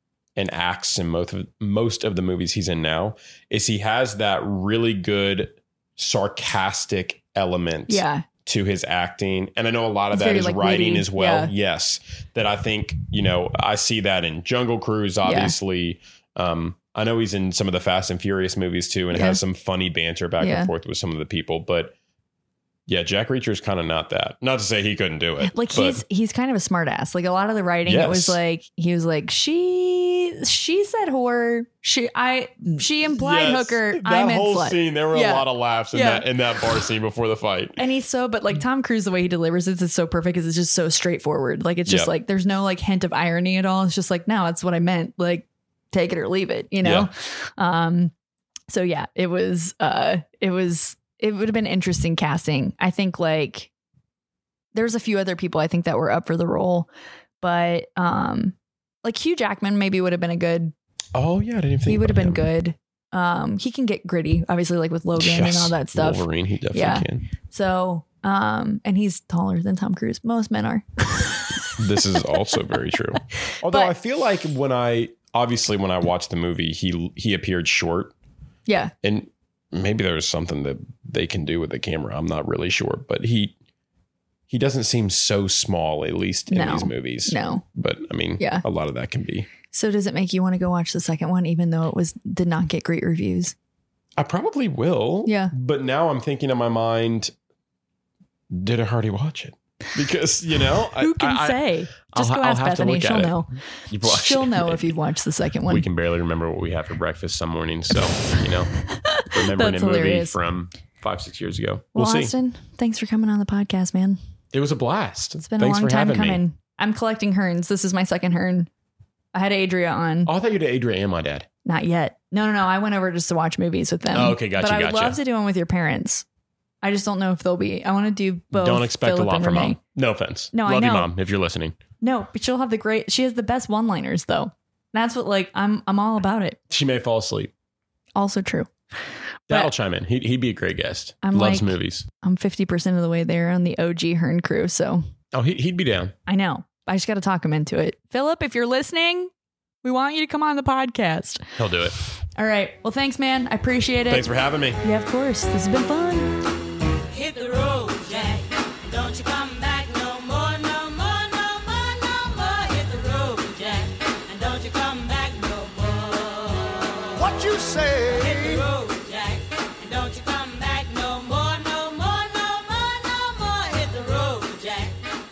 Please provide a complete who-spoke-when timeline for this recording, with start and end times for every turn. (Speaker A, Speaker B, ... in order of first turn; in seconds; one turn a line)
Speaker A: 0.3-21.9
Speaker B: 7.9-8.2
Speaker B: 10.1-11.5
Speaker B: 15.2-15.6
Speaker B: 19.1-19.4
Speaker B: 20.4-20.7
Speaker A: 22.9-26.0
Speaker B: 25.4-36.3
Speaker A: 27.9-28.4
Speaker A: 33.0-37.8
Speaker B: 37.8-48.1
Speaker A: 41.9-42.1
Speaker A: 46.8-47.1
Speaker B: 48.7-53.7
Speaker B: 54.7-56.9
Speaker B: 57.4-60.7
Speaker A: 61.1-62.4
Speaker B: 61.9-71.7
Speaker A: 65.2-67.3
Speaker A: 71.8-78.1
Speaker B: 73.7-73.9
Speaker B: 78.7-78.9
Speaker A: 79.0-83.5
Speaker A: 84.5-89.5
Speaker B: 86.5-87.6
Speaker B: 89.7-93.5
Speaker A: 94.2-97.3
Speaker B: 95.2-95.5
Speaker A: 98.5-104.9
Speaker B: 101.0-105.8
Speaker A: 105.7-108.7
Speaker B: 108.9-110.4
Speaker A: 109.2-112.3
Speaker B: 111.9-114.2
Speaker A: 114.5-116.4
Speaker B: 115.4-118.7
Speaker B: 119.3-120.3
Speaker A: 120.2-121.5
Speaker B: 121.7-126.2
Speaker A: 124.1-125.2
Speaker B: 126.8-129.8
Speaker A: 128.5-131.8
Speaker B: 130.5-131.1
Speaker B: 132.0-136.6
Speaker A: 136.7-137.5
Speaker B: 138.2-138.7
Speaker A: 139.5-142.1
Speaker B: 141.2-145.0
Speaker A: 145.3-146.1
Speaker B: 146.3-149.3
Speaker B: 149.8-151.4
Speaker A: 151.6-151.9
Speaker B: 152.3-154.2
Speaker A: 154.1-154.8
Speaker B: 154.8-156.4
Speaker C: 159.8-160.9
Speaker C: 162.7-163.8
Speaker C: 164.4-166.0
Speaker A: 167.6-168.0
Speaker C: 168.9-169.4
Speaker C: 170.0-172.9
Speaker C: 173.6-174.9